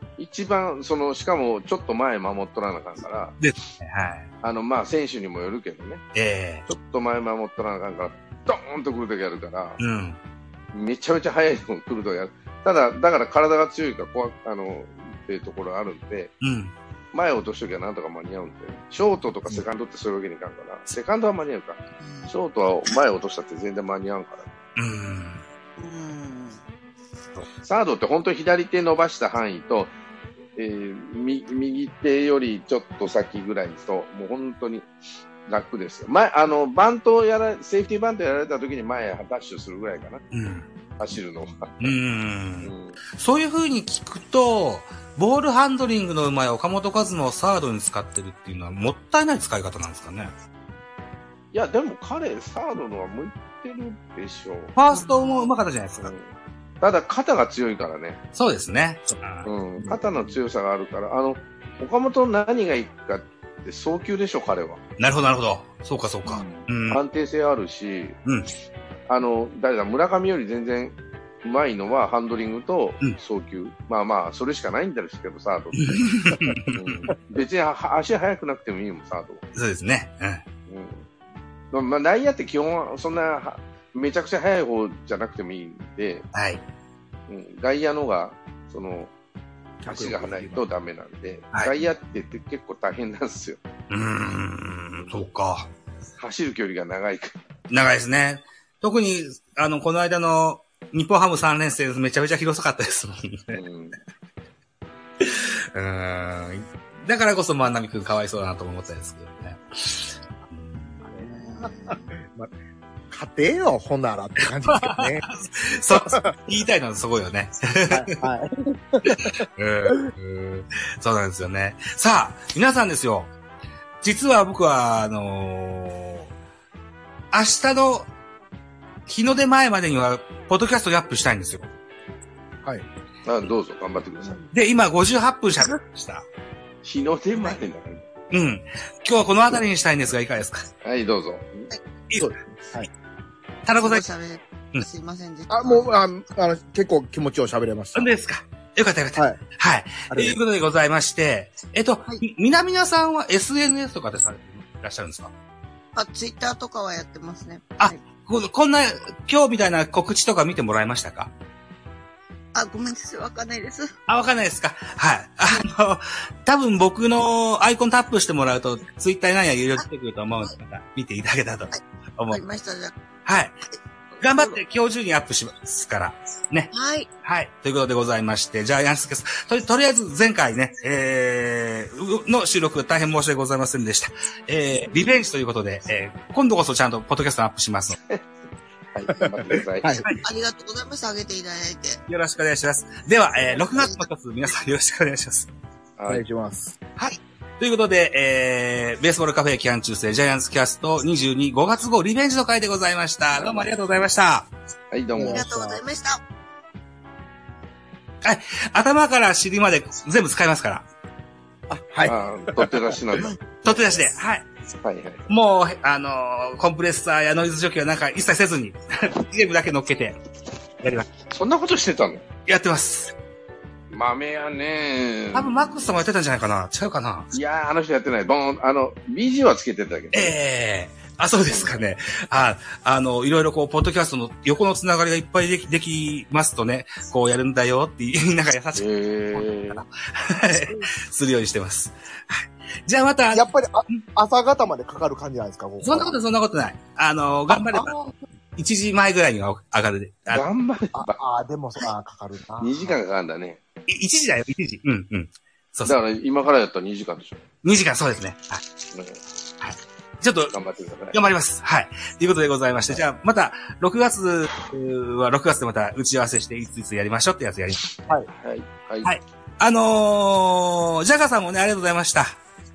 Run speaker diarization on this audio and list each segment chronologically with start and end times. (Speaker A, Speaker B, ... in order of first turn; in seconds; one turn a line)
Speaker A: 0.2-3.4
Speaker B: 3.4-4.3
Speaker A: 4.4-6.0
Speaker B: 6.2-6.7
Speaker A: 6.7-9.8
Speaker B: 9.8-10.2
Speaker A: 10.7-16.3
Speaker B: 16.4-16.7
Speaker A: 17.1-24.5
Speaker C: 22.0-22.3
Speaker B: 24.8-25.4
Speaker C: 25.8-26.6
Speaker A: 27.6-29.9
Speaker A: 30.6-34.9
Speaker A: 35.5-40.2
Speaker B: 40.3-40.7
Speaker A: 41.0-42.0
Speaker B: 41.8-50.3
Speaker A: 42.6-43.0
Speaker A: 51.5-54.7
Speaker B: 54.8-56.1
Speaker C: 54.9-55.5
Speaker A: 56.0-58.2
Speaker B: 58.4-59.5
Speaker A: 59.5-64.8
Speaker D: 59.8-60.3
Speaker B: 65.0-67.0
Speaker A: 66.3-68.2
Speaker B: 68.2-68.5
Speaker A: 69.1-75.9
Speaker B: 75.8-77.0
Speaker A: 76.7-79.4
Speaker B: 79.5-80.4
Speaker A: 80.7-81.1
Speaker A: 81.7-86.3
Speaker B: 86.3-86.6
Speaker A: 87.3-89.1
Speaker D: 89.8-90.7
Speaker A: 89.9-93.6
Speaker B: 93.9-95.7
Speaker A: 96.2-97.4
Speaker B: 97.7-103.6
Speaker A: 103.5-104.0
Speaker B: 105.2-111.1
Speaker C: 111.2-112.1
Speaker D: 111.7-112.5
Speaker D: 113.1-115.3
Speaker B: 114.6-118.2
Speaker D: 115.9-116.3
Speaker D: 117.9-120.1
Speaker B: 119.1-123.3
Speaker B: 124.0-126.3
Speaker B: 127.3-128.1
Speaker B: 129.1-131.7
Speaker A: 133.2-134.4
Speaker B: 134.5-136.3
Speaker A: 136.8-138.1
Speaker B: 138.3-140.7
Speaker A: 140.8-141.7
Speaker D: 142.2-142.9
Speaker B: 143.7-144.1
Speaker C: 143.8-146.0
Speaker D: 145.5-148.1
Speaker B: 147.9-155.3
Speaker D: 150.1-150.4
Speaker C: 155.9-158.0
Speaker B: 157.8-161.3
Speaker C: 162.5-163.9
Speaker B: 164.1-172.4
Speaker C: 171.7-172.9
Speaker B: 173.3-173.6
Speaker C: 173.7-174.6
Speaker B: 174.2-176.7
Speaker C: 176.7-177.1
Speaker B: 177.2-188.0
Speaker A: 188.9-190.1
Speaker D: 189.8-190.1
Speaker C: 190.2-192.0
Speaker B: 192.1-195.5
Speaker C: 193.4-194.1
Speaker A: 196.0-196.2
Speaker D: 196.1-196.8
Speaker B: 197.6-204.5
Speaker A: 203.3-203.7
Speaker A: 204.9-205.4
Speaker D: 205.2-205.8
Speaker C: 205.2-206.2
Speaker B: 208.2-210.9
Speaker D: 211.7-213.4
Speaker A: 212.1-213.8
Speaker B: 213.6-214.5
Speaker A: 214.8-215.3
Speaker B: 215.3-220.2
Speaker A: 221.3-222.2
Speaker B: 222.5-223.1
Speaker A: 223.9-225.8
Speaker B: 225.3-227.3
Speaker A: 227.3-230.3
Speaker B: 230.1-244.0
Speaker A: 231.5-231.8
Speaker A: 238.8-239.9
Speaker D: 243.3-246.2
Speaker B: 245.8-247.9
Speaker D: 247.5-248.2
Speaker B: 248.6-250.4
Speaker A: 250.3-251.1
Speaker D: 250.9-253.0
Speaker A: 252.6-253.6
Speaker B: 253.9-256.0
Speaker A: 255.9-257.4
Speaker B: 257.6-258.6
Speaker A: 258.9-259.2
Speaker B: 259.6-260.6
Speaker A: 260.5-261.2
Speaker B: 261.1-268.2
Speaker A: 268.3-269.1
Speaker B: 269.0-272.4